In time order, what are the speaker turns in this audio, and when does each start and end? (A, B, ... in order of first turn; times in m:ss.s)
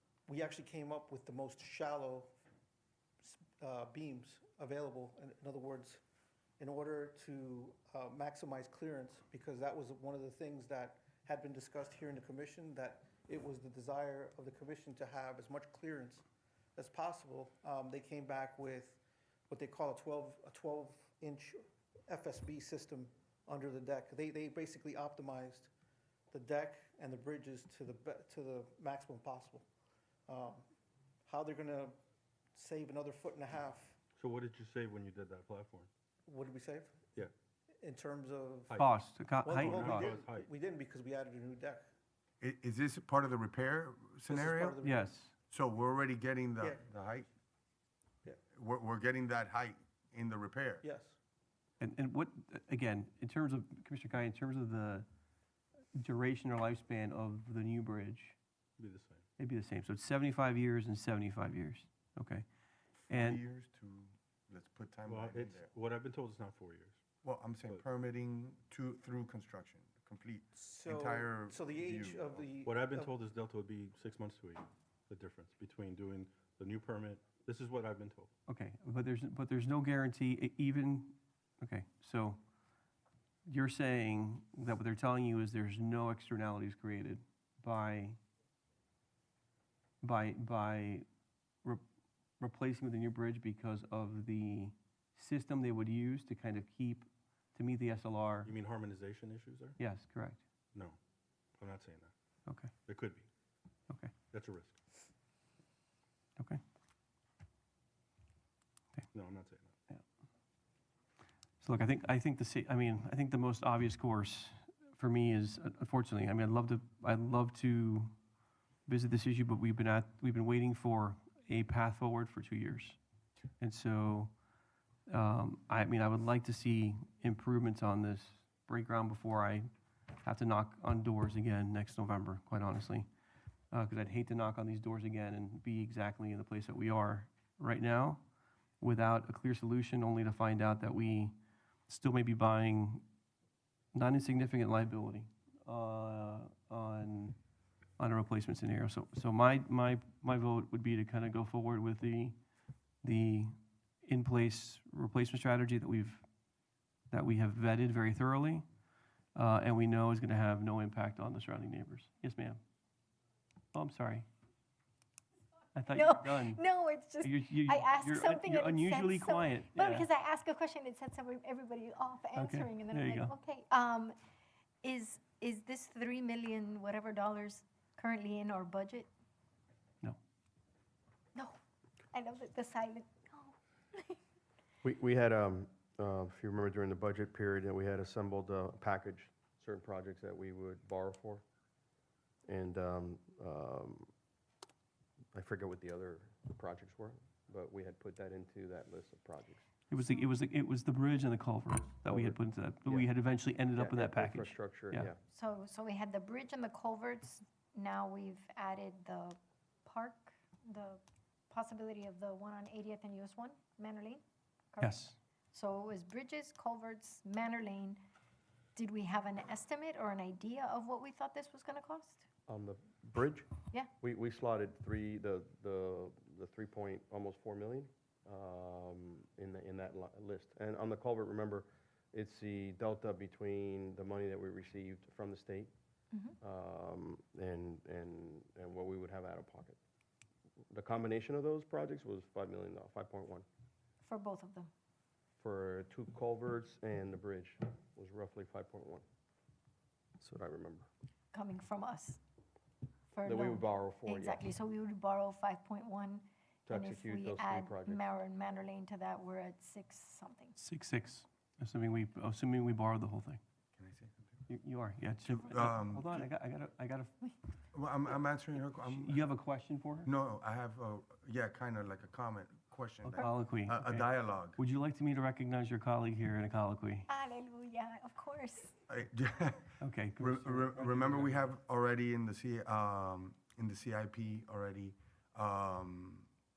0:00.3-0:02.3 A
0:03.2-0:06.0 A
0:06.6-0:16.2 A
0:16.8-0:25.7 A
0:26.3-0:29.7 A
0:30.3-0:30.6 A
0:31.2-0:32.0 A
0:32.5-0:34.0 A
0:34.2-0:35.9 B
0:36.2-0:37.0 A
0:37.8-0:38.8 A
0:38.8-0:40.1 C
0:39.4-0:41.8 A
0:39.6-0:40.5 B
0:42.4-0:44.8 D
0:44.3-0:45.1 A
0:44.8-0:45.3 C
0:45.5-0:47.3 D
0:46.6-0:46.8 A
0:48.5-0:50.8 D
0:50.8-0:51.2 A
0:51.8-0:55.1 C
0:55.9-0:58.4 C
0:58.8-0:59.2 B
0:59.4-1:02.4 C
1:03.1-1:05.7 D
1:03.1-1:03.4 C
1:05.1-1:07.0 B
1:07.2-1:12.5 D
1:10.5-1:13.1 A
1:12.6-1:18.3 B
1:18.5-1:22.4 C
1:23.4-1:28.2 C
1:30.0-1:31.0 C
1:32.4-1:38.5 C
1:38.4-1:39.8 B
1:39.8-1:40.4 C
1:41.6-1:42.1 B
1:42.4-1:42.7 C
1:42.9-1:43.3 B
1:44.3-1:44.8 B
1:49.1-1:49.7 B
1:51.6-1:58.1 C
1:58.8-2:03.0 C
2:03.6-2:04.3 C
2:05.1-2:09.7 C
2:10.2-2:13.1 C
2:13.7-2:18.2 C
2:18.8-2:21.3 C
2:21.9-2:23.0 C
2:23.9-2:27.4 C
2:28.0-2:32.4 C
2:33.0-2:33.5 C
2:34.0-2:36.2 C
2:37.1-2:38.6 C
2:39.3-2:42.6 C
2:43.7-2:44.3 C
2:45.7-2:46.6 C
2:45.9-2:54.1 E
2:47.2-2:50.1 C
2:52.3-2:53.3 C
2:54.8-2:59.1 E
3:02.1-3:04.2 E
3:04.8-3:11.4 F
3:12.4-3:14.1 F
3:15.3-3:19.6 F
3:19.9-3:25.1 C
3:22.0-3:23.1 F
3:23.7-3:25.2 F
3:25.3-3:34.2 E
3:34.7-3:38.0 E
3:34.8-3:35.2 C
3:38.8-3:42.2 E
3:42.5-3:55.7 F
3:56.4-3:59.8 F
4:00.7-4:03.4 F
4:04.0-4:04.7 E
4:05.4-4:09.0 F
4:10.2-4:10.9 F
4:11.3-4:12.2 E
4:13.1-4:20.6 E
4:13.2-4:14.4 F
4:16.7-4:18.0 F
4:20.6-4:23.4 C
4:23.8-4:24.4 D
4:24.5-4:27.3 C
4:25.2-4:26.3 D
4:27.7-4:29.2 D
4:28.7-4:30.1 C
4:30.0-4:34.6 D
4:33.0-4:37.1 C
4:37.1-4:38.8 E
4:38.9-4:46.3 D
4:39.8-4:41.5 C